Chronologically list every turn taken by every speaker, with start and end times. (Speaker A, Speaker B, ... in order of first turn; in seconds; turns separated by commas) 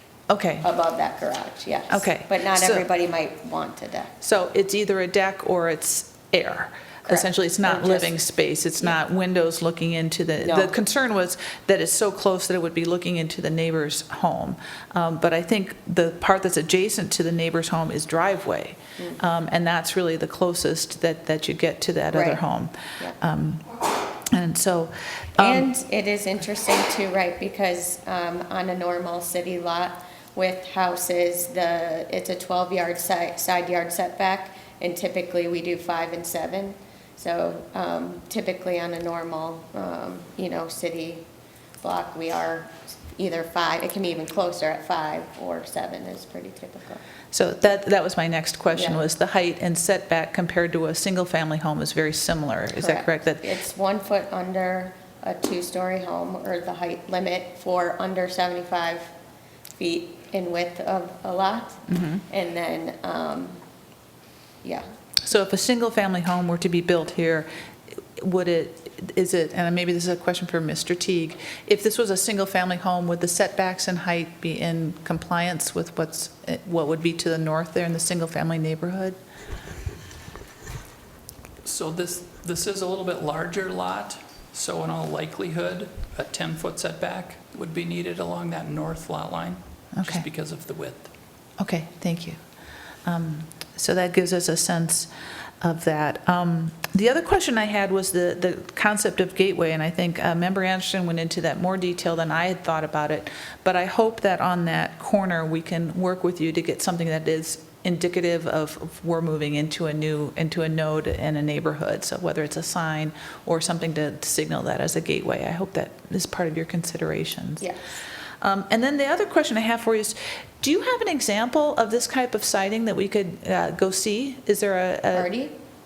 Speaker A: 0.3-0.7, Speaker B: 0.6-4.1, Speaker A: 1.9-2.9, Speaker A: 4.2-23.7, Speaker B: 7.1-8.1, Speaker B: 10.4-10.7, Speaker B: 22.1-22.4, Speaker A: 24.3-25.7, Speaker B: 25.4-41.2, Speaker B: 41.8-47.0, Speaker A: 47.3-53.5, Speaker B: 48.7-49.0, Speaker B: 52.8-59.1, Speaker B: 59.8-63.6, Speaker A: 61.9-62.2, Speaker A: 65.2-67.5, Speaker A: 68.2-79.2, Speaker C: 81.6-91.1, Speaker A: 89.9-90.2, Speaker A: 91.6-92.4, Speaker A: 93.0-95.1, Speaker A: 95.6-117.7, Speaker A: 118.4-125.3, Speaker B: 125.1-125.5